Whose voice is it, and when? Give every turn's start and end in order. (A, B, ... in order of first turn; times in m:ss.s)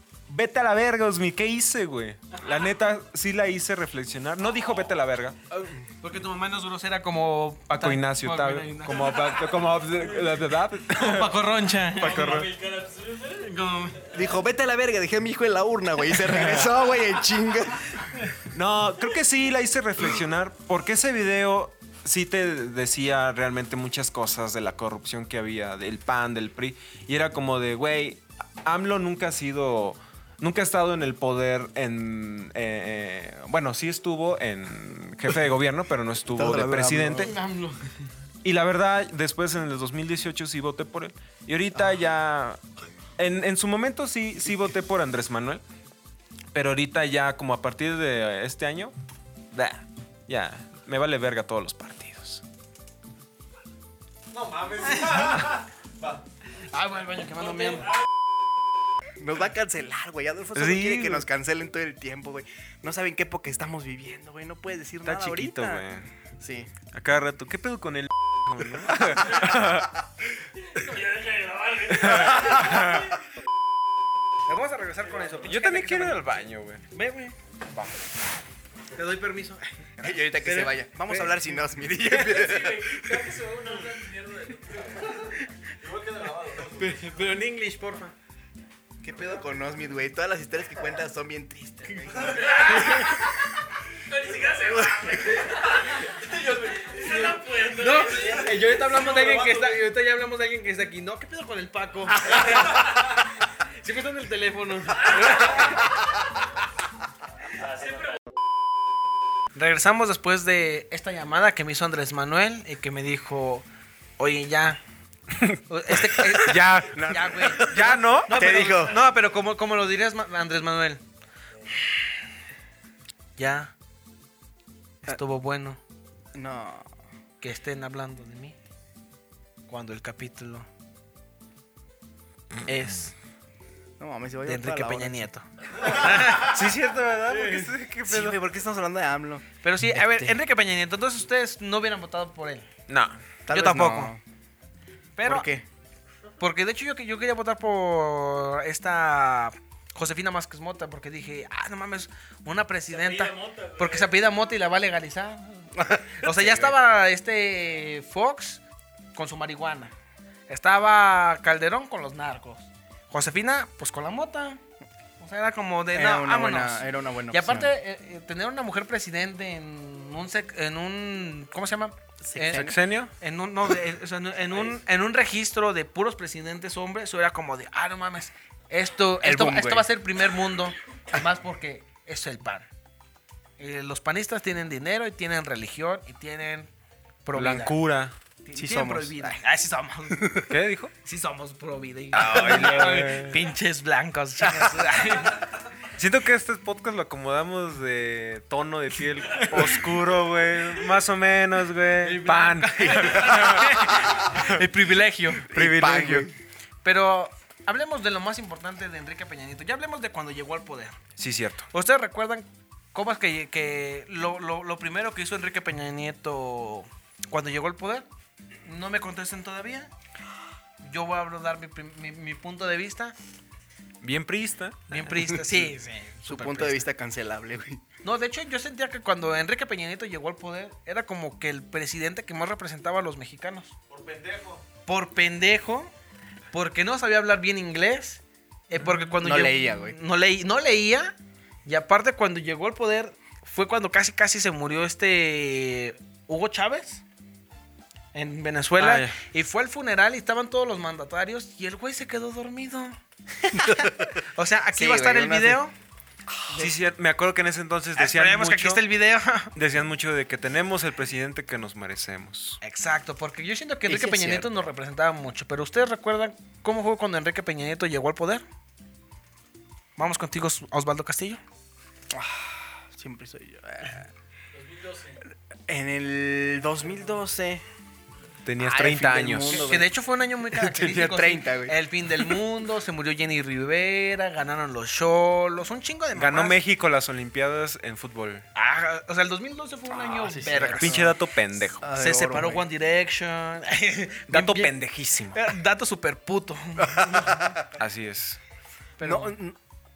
0:00.3-0:05.4 A
0:05.6-0:09.3 B
0:07.7-0:11.4 A
0:10.9-0:12.4 B
0:12.0-0:12.5 A
0:12.0-0:13.6 C
0:13.4-0:14.1 B
0:14.1-0:18.1 D
0:18.5-0:37.3 A
0:36.3-0:37.4 D
0:37.2-0:37.9 B
0:38.4-0:42.6 A
0:43.2-0:45.6 A
0:46.5-0:48.9 A
0:49.5-0:52.4 A
0:54.8-0:55.5 B
0:56.6-0:58.0 B
0:59.2-1:05.8 D
1:00.5-1:01.3 A
1:05.0-1:06.1 A
1:06.4-1:06.7 D
1:06.9-1:10.0 A
1:10.7-1:12.9 C
1:12.0-1:13.1 A
1:14.5-1:16.3 B
1:15.4-1:16.8 A
1:16.9-1:17.4 B
1:18.9-1:19.9 B
1:20.0-1:23.2 D
1:20.4-1:21.3 B
1:22.1-1:25.1 C
1:26.5-1:28.1 B
1:29.0-1:33.1 D
1:32.2-1:32.9 B
1:34.1-1:38.7 C
1:35.0-1:35.4 D
1:37.0-1:42.8 B
1:43.8-1:45.7 B
1:47.7-1:48.1 C
1:49.5-1:53.6 B
1:54.2-1:54.8 B
1:55.3-1:58.8 A
1:55.7-2:01.0 B
1:56.9-1:59.0 D
2:03.4-2:03.7 B
2:05.0-2:05.8 B
2:06.3-2:06.9 D
2:07.4-2:08.6 B
2:09.7-2:10.7 B
2:12.6-2:13.1 B
2:14.0-2:15.2 D
2:14.4-2:16.6 B
2:15.9-2:18.4 A
2:18.1-2:20.2 D
2:19.6-2:22.7 B
2:22.9-2:23.2 A
2:23.4-2:24.2 D
2:23.5-2:24.1 B
2:25.2-2:25.5 B
2:25.2-2:25.6 D
2:26.4-2:38.6 B
2:32.9-2:34.2 C
2:35.7-2:36.7 D
2:39.1-2:39.9 B
2:40.5-2:44.6 B
2:45.2-3:02.7 B
2:45.9-2:47.7 D
2:52.2-2:52.8 D
2:52.5-2:53.1 A
2:59.2-2:59.9 D
3:03.6-3:06.7 B
3:07.2-3:07.8 B
3:07.3-3:08.1 A
3:08.4-3:10.4 B
3:08.5-3:09.4 D
3:10.1-3:10.4 D
3:10.5-3:10.9 A
3:11.0-3:15.4 B
3:12.1-3:13.4 A
3:16.0-3:24.6 A
3:22.0-3:25.5 B
3:25.5-3:26.3 A
3:25.5-3:26.3 D
3:26.8-3:31.0 B
3:31.2-3:31.7 A
3:31.7-3:38.1 B
3:38.6-3:39.9 B
3:40.8-3:43.1 B
3:44.0-3:45.5 A
3:44.9-3:46.8 B
3:46.2-3:47.8 D
3:48.0-3:53.7 B
3:54.0-3:54.6 A
3:54.8-3:55.9 B
3:56.5-4:07.0 B
3:59.2-4:00.0 D
4:08.1-4:15.7 B
4:08.8-4:09.1 A
4:13.6-4:13.9 D
4:14.7-4:15.6 D
4:16.5-4:18.8 A
4:18.0-4:19.5 B
4:19.5-4:22.6 A
4:22.6-4:28.4 B
4:23.9-4:24.6 D
4:30.0-4:31.4 B
4:32.1-4:34.1 D
4:34.5-4:35.2 C
4:35.7-4:37.6 D
4:38.4-4:39.8 A
4:38.6-4:39.9 D
4:39.5-4:46.6 B
4:40.5-4:42.3 D
4:46.1-4:48.4 A
4:48.5-4:51.1 B
4:50.0-4:51.2 D
4:50.6-4:51.8 A
4:51.8-4:52.7 D
4:51.9-4:54.7 B
4:54.3-4:55.5 A
4:55.3-4:57.5 B
4:56.9-4:57.5 D
4:57.7-4:58.4 A
4:59.0-4:59.4 B
4:59.0-4:59.6 D